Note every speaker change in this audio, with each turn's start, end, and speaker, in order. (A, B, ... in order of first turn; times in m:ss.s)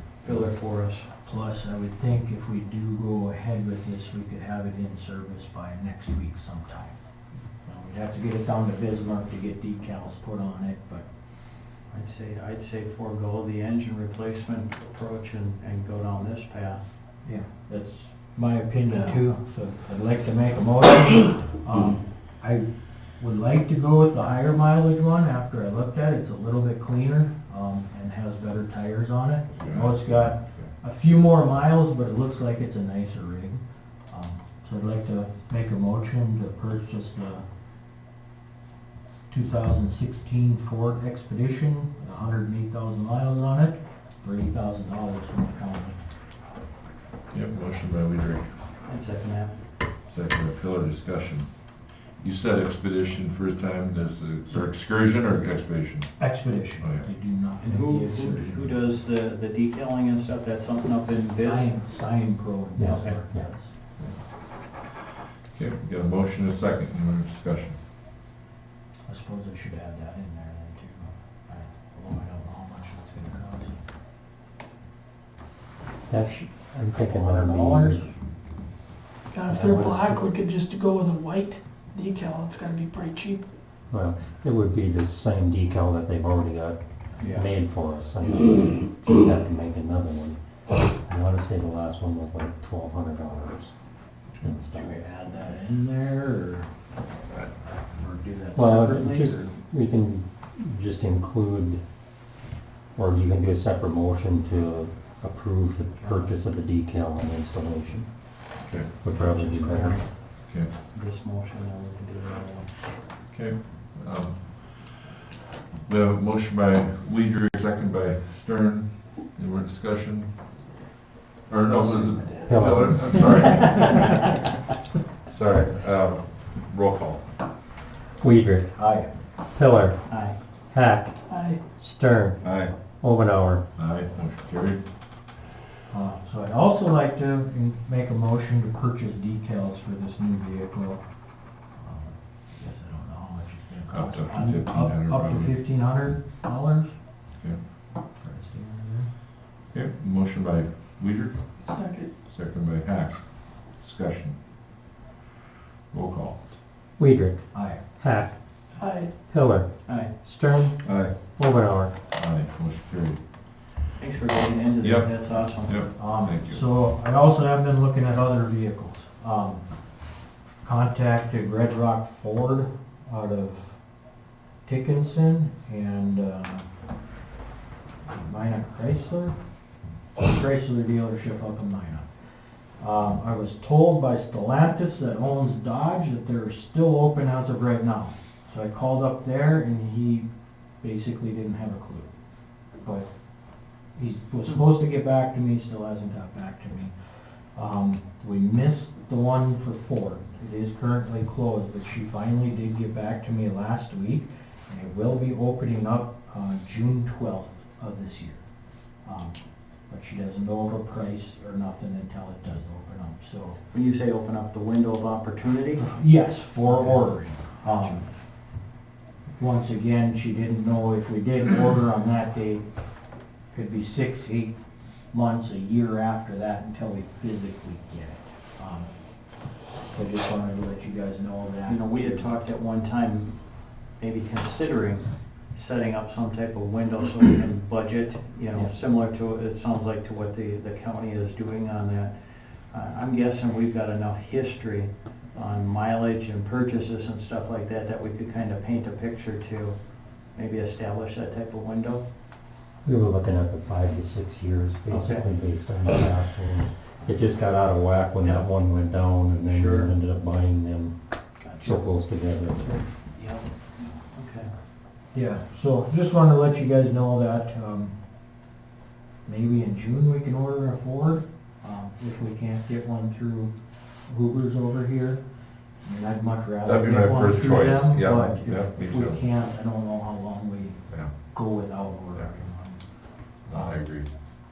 0:00.2-0:01.1 A
0:01.2-0:07.0 B
0:07.6-0:11.0 B
0:11.9-0:16.8 A
0:17.2-0:22.7 B
0:23.2-0:37.4 B
0:29.5-0:30.7 C
0:39.3-0:46.0 B
0:47.3-0:48.6 C
0:48.9-0:49.6 A
0:50.1-0:51.5 C
0:52.2-0:56.2 C
0:56.2-0:58.8 B
0:56.8-0:57.1 C
0:57.6-1:01.8 A
1:01.1-1:03.7 B
1:02.8-1:03.5 D
1:05.6-1:07.8 C
1:09.1-1:13.8 B
1:16.1-1:18.0 D
1:16.9-1:18.1 B
1:19.3-1:23.5 E
1:19.5-1:20.3 D
1:23.9-1:30.4 D
1:27.2-1:27.4 B
1:31.0-1:33.7 D
1:34.4-1:35.0 D
1:34.7-1:36.7 B
1:37.6-1:39.5 B
1:38.5-1:41.8 D
1:43.0-1:48.1 D
1:46.0-1:46.3 A
1:48.6-1:48.9 C
1:49.0-1:50.0 D
1:49.0-1:50.1 A
1:50.9-1:52.8 A
1:53.3-1:55.0 C
1:55.9-2:00.3 C
2:01.5-2:04.4 C
2:01.7-2:02.4 E
2:02.4-2:04.1 D
2:05.3-2:07.2 C
2:08.2-2:08.7 D
2:08.7-2:09.1 B
2:09.5-2:10.0 D
2:10.1-2:10.4 A
2:10.7-2:11.2 D
2:11.3-2:11.6 E
2:11.8-2:12.4 D
2:12.4-2:12.7 C
2:13.0-2:13.6 D
2:13.8-2:14.8 C
2:15.9-2:21.0 B
2:21.8-2:26.9 B
2:23.9-2:25.5 C
2:28.2-2:29.1 B
2:29.7-2:31.4 C
2:31.6-2:32.1 E
2:32.2-2:33.2 C
2:33.7-2:34.4 C
2:35.9-2:36.4 C
2:37.0-2:37.4 D
2:37.5-2:37.8 B
2:38.0-2:38.3 D
2:38.8-2:39.1 E
2:39.3-2:39.7 D
2:40.2-2:41.9 D
2:40.8-2:41.1 C
2:42.1-2:43.2 C
2:44.0-2:45.9 A
2:44.8-2:46.6 C
2:46.0-2:49.6 B
2:50.6-2:53.7 B
2:54.6-2:56.6 B
2:58.0-2:59.4 B
3:00.2-3:02.1 B
3:02.8-3:10.2 B
3:10.8-3:12.1 B
3:12.8-3:13.1 B
3:14.0-3:16.9 B
3:17.6-3:28.4 B
3:29.0-3:29.4 B
3:29.9-3:33.6 B
3:33.7-3:36.0 A
3:35.8-3:38.0 B
3:36.6-3:38.0 A
3:39.4-3:42.6 B
3:43.5-3:44.6 B
3:45.1-3:48.9 B
3:49.9-3:52.3 B
3:51.6-3:53.4 A
3:54.0-4:02.1 A
4:02.7-4:09.8 A
4:10.3-4:12.0 A
4:12.8-4:20.9 D
4:14.9-4:15.3 A
4:19.4-4:19.9 A
4:21.4-4:21.8 A
4:21.6-4:22.7 D
4:22.6-4:24.5 A
4:25.1-4:27.9 B
4:29.2-4:33.5 B
4:34.1-4:35.2 B
4:35.8-4:42.8 B
4:36.6-4:39.2 C
4:43.5-4:44.1 C
4:43.5-4:43.8 B